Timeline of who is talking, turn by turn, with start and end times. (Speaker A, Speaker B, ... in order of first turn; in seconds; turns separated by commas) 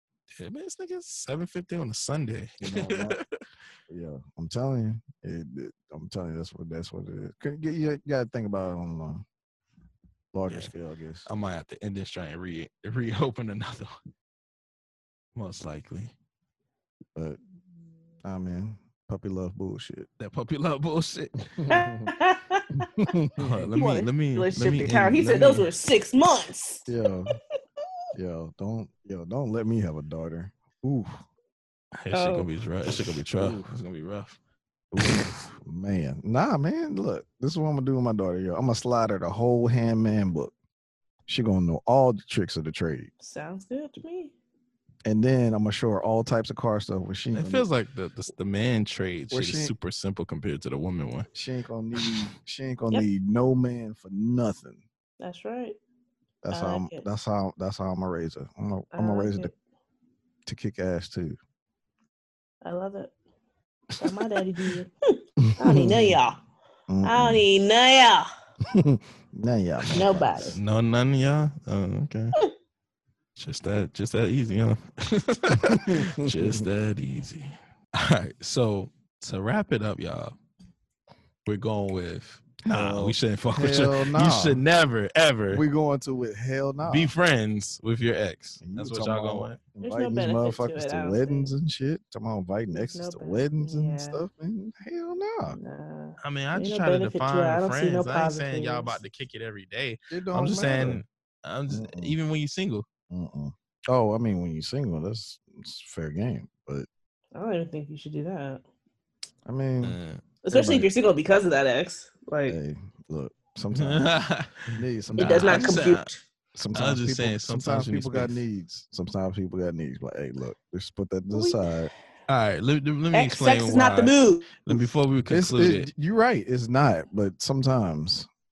Speaker A: 0.4-3.2, Speaker B: 2.6-3.2, Speaker B: 3.9-9.2, Speaker B: 10.3-11.3, Speaker A: 11.2-13.9, Speaker A: 15.3-16.1, Speaker B: 18.2-20.1, Speaker A: 20.2-21.5, Speaker B: 21.4-22.1, Speaker C: 21.7-22.9, Speaker B: 22.8-23.7, Speaker A: 23.4-25.7, Speaker C: 23.7-27.8, Speaker B: 26.9-27.3, Speaker B: 28.1-31.2, Speaker A: 32.0-34.4, Speaker C: 32.1-32.5, Speaker B: 33.4-33.6, Speaker B: 34.9-40.5, Speaker A: 35.0-35.5, Speaker B: 41.3-43.1, Speaker C: 43.2-44.3, Speaker B: 45.0-47.7, Speaker A: 47.3-51.3, Speaker B: 49.3-49.7, Speaker B: 51.3-54.8, Speaker C: 55.2-55.8, Speaker B: 56.4-59.5, Speaker C: 56.5-57.0, Speaker C: 58.9-59.5, Speaker B: 60.5-61.4, Speaker C: 62.6-63.1, Speaker C: 64.0-66.4, Speaker B: 65.4-66.2, Speaker B: 66.9-67.4, Speaker C: 67.0-68.3, Speaker B: 68.7-70.6, Speaker C: 69.9-70.6, Speaker A: 70.5-72.3, Speaker A: 73.3-80.3, Speaker B: 75.5-76.7, Speaker A: 81.5-85.6, Speaker B: 82.7-84.6, Speaker B: 85.5-87.1, Speaker A: 86.8-89.6, Speaker B: 88.6-95.6, Speaker C: 89.8-91.5, Speaker C: 92.7-94.2, Speaker C: 95.5-99.0, Speaker A: 96.2-102.8, Speaker B: 100.1-101.0, Speaker B: 101.7-102.1, Speaker B: 103.1-106.9, Speaker C: 107.3-108.6, Speaker B: 109.5-110.9, Speaker A: 109.8-110.2, Speaker C: 110.4-112.6, Speaker B: 112.5-114.0, Speaker A: 113.7-116.1, Speaker B: 114.7-115.7, Speaker C: 115.2-116.2, Speaker B: 116.5-121.9, Speaker A: 116.7-118.4, Speaker C: 121.3-121.7, Speaker A: 122.3-125.9, Speaker C: 123.1-124.5, Speaker B: 124.7-128.3